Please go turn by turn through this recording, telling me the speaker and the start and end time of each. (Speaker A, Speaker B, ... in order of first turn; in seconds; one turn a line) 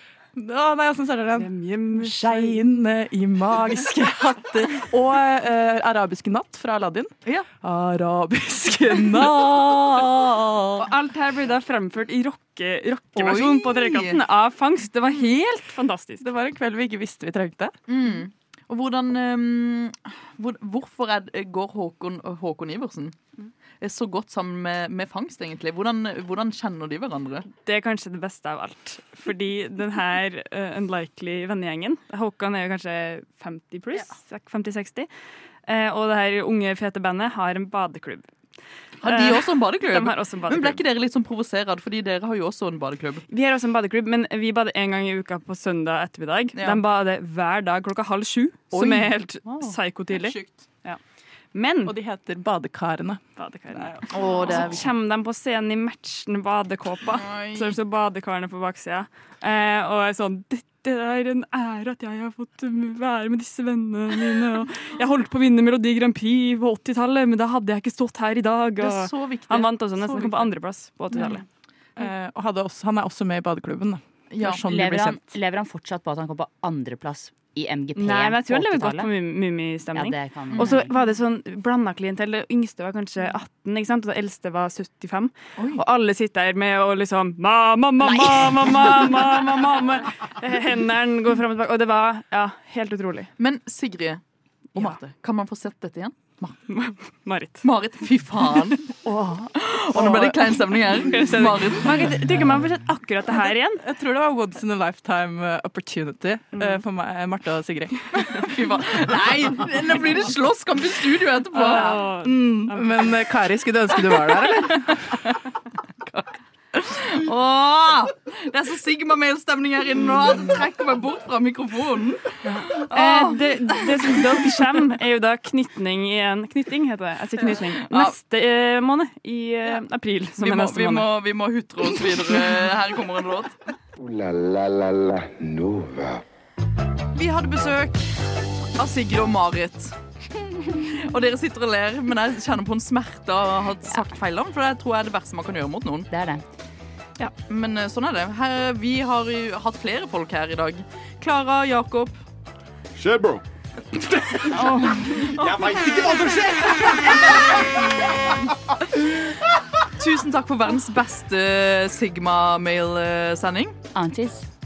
Speaker A: 0.4-10.9
Speaker B: 1.4-2.6
Speaker B: 9.0-9.7
Speaker B: 10.8-16.3
Speaker C: 13.2-14.2
Speaker A: 16.2-17.8
Speaker C: 17.9-23.2
Speaker C: 23.8-27.5
Speaker B: 27.5-35.1
Speaker B: 35.7-38.2
Speaker B: 39.0-40.9
Speaker C: 39.0-43.2
Speaker B: 43.3-51.0
Speaker C: 46.5-46.8
Speaker C: 48.7-49.7
Speaker A: 50.1-50.7
Speaker B: 51.5-52.0
Speaker A: 51.9-54.8
Speaker B: 53.4-71.5
Speaker C: 54.1-54.9
Speaker C: 57.1-57.8
Speaker C: 68.8-70.5
Speaker A: 72.0-75.4
Speaker C: 74.3-74.7
Speaker D: 74.7-79.1
Speaker B: 78.0-93.3
Speaker D: 80.0-80.9
Speaker C: 80.6-80.8
Speaker D: 88.2-88.9
Speaker C: 93.4-94.2
Speaker C: 94.8-96.6
Speaker B: 96.7-97.7
Speaker C: 97.6-102.2
Speaker B: 100.0-103.8
Speaker A: 103.8-108.5
Speaker B: 106.5-106.8
Speaker C: 108.3-112.8
Speaker B: 111.5-113.1
Speaker A: 112.7-115.1
Speaker C: 114.1-124.4
Speaker B: 122.5-131.2
Speaker C: 127.8-128.2
Speaker C: 130.4-133.6
Speaker E: 134.0-136.2
Speaker C: 137.1-138.1
Speaker C: 138.8-139.9
Speaker C: 140.8-146.1
Speaker D: 146.1-146.4
Speaker C: 147.5-152.2
Speaker F: 152.9-159.5
Speaker D: 154.5-155.4
Speaker C: 160.0-163.8
Speaker D: 163.9-164.5